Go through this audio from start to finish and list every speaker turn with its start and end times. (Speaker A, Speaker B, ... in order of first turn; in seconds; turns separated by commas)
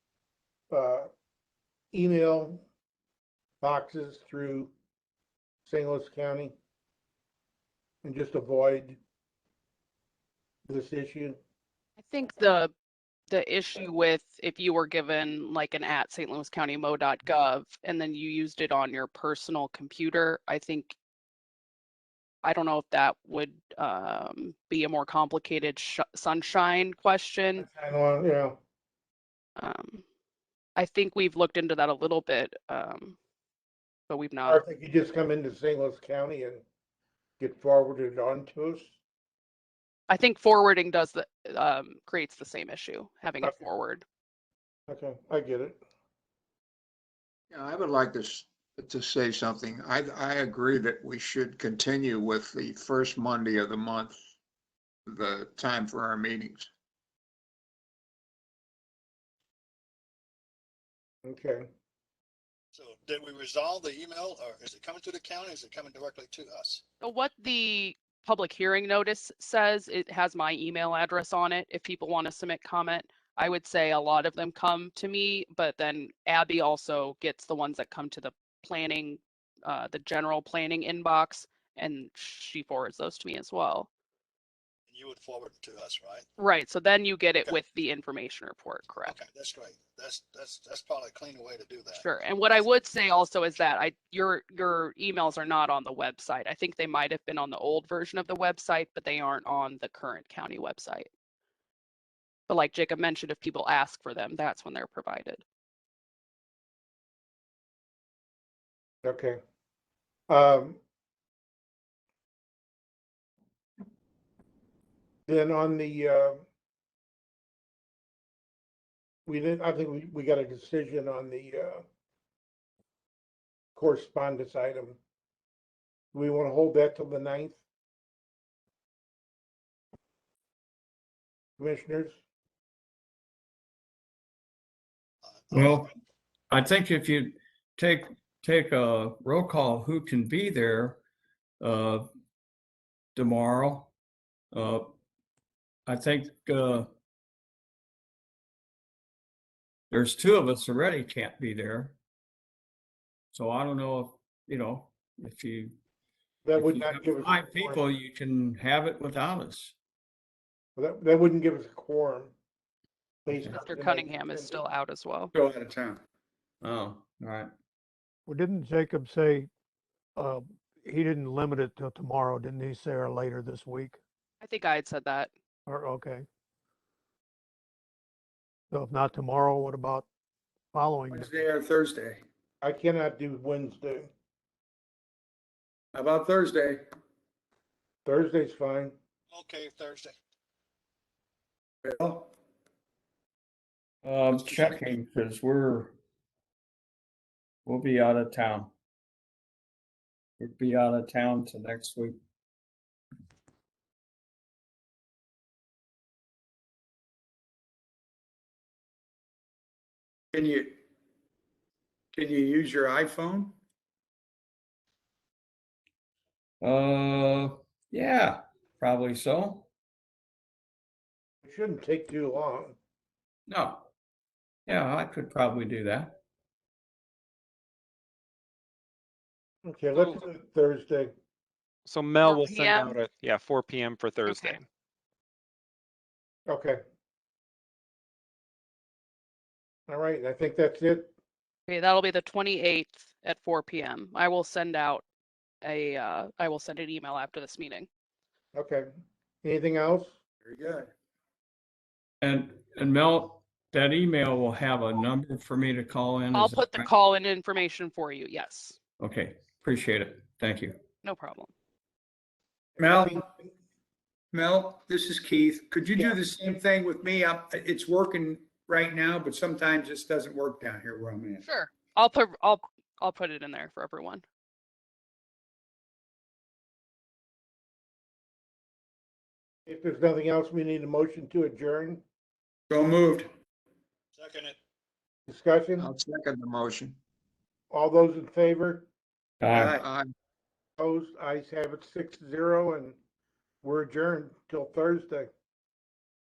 Speaker A: 0.7-1.1, Speaker A: 1.9-2.6, Speaker A: 3.6-4.7, Speaker A: 5.7-6.5, Speaker A: 8.0-9.0, Speaker A: 10.7-11.4, Speaker B: 12.0-12.7, Speaker B: 13.3-20.9, Speaker B: 22.4-27.7, Speaker A: 27.6-28.6, Speaker B: 29.6-30.0, Speaker B: 30.8-33.1, Speaker B: 34.1-34.6, Speaker A: 34.5-36.6, Speaker A: 37.4-38.9, Speaker B: 40.1-44.0, Speaker A: 44.9-45.8, Speaker C: 47.5-54.2, Speaker C: 55.1-56.7, Speaker A: 61.2-61.7, Speaker D: 62.7-66.8, Speaker B: 67.0-83.9, Speaker D: 84.9-86.3, Speaker B: 86.4-89.1, Speaker D: 89.0-92.0, Speaker B: 92.0-101.1, Speaker B: 102.5-105.4, Speaker A: 109.0-109.4, Speaker A: 110.3-110.8, Speaker A: 115.3-116.4, Speaker A: 119.3-121.8, Speaker A: 123.8-125.0, Speaker A: 126.1-127.6, Speaker A: 131.6-132.2, Speaker D: 135.2-135.9, Speaker E: 135.5-135.9, Speaker E: 136.5-141.0, Speaker E: 141.6-142.1, Speaker E: 143.2-143.9, Speaker E: 144.5-144.8, Speaker E: 145.9-146.9, Speaker E: 149.9-152.0, Speaker E: 153.3-155.8, Speaker A: 156.4-157.8, Speaker E: 156.6-159.7, Speaker A: 160.8-162.3, Speaker A: 163.2-164.6, Speaker B: 163.5-165.3, Speaker F: 165.3-166.0, Speaker E: 166.6-167.5, Speaker G: 168.3-169.5, Speaker G: 170.2-174.0, Speaker B: 174.4-175.3, Speaker G: 175.7-176.3, Speaker G: 178.7-180.1, Speaker G: 180.7-181.4, Speaker F: 181.1-182.2, Speaker A: 182.6-184.1, Speaker F: 185.9-186.8, Speaker A: 188.1-188.9, Speaker D: 189.3-190.1, Speaker F: 191.8-192.3, Speaker E: 194.0-195.9, Speaker D: 194.3-194.8, Speaker E: 197.7-198.7, Speaker E: 200.4-202.2, Speaker F: 210.3-210.8, Speaker F: 212.1-213.5, Speaker E: 216.6-219.7, Speaker A: 221.4-222.8, Speaker E: 223.5-223.9, Speaker E: 224.7-226.2, Speaker A: 229.7-231.1, Speaker H: 231.8-234.6, Speaker B: 232.2-233.0, Speaker B: 234.2-234.6, Speaker A: 236.5-236.8, Speaker A: 239.9-241.1, Speaker B: 241.7-245.1, Speaker B: 245.6-247.9, Speaker A: 248.5-248.9, Speaker A: 249.4-250.2, Speaker F: 250.4-250.9, Speaker E: 252.2-256.9, Speaker B: 256.3-258.8, Speaker E: 259.0-260.8, Speaker B: 261.0-261.5, Speaker F: 262.8-263.2, Speaker A: 262.8-263.4, Speaker F: 264.3-271.4, Speaker B: 271.4-274.2, Speaker A: 279.7-282.0, Speaker F: 282.7-283.3, Speaker D: 284.1-284.6, Speaker A: 285.3-285.9, Speaker C: 285.8-286.9, Speaker A: 287.7-288.9, Speaker E: 289.4-289.8, Speaker F: 289.5-289.8, Speaker C: 289.6-290.1, Speaker A: 290.8-293.0, Speaker A: 293.6-295.3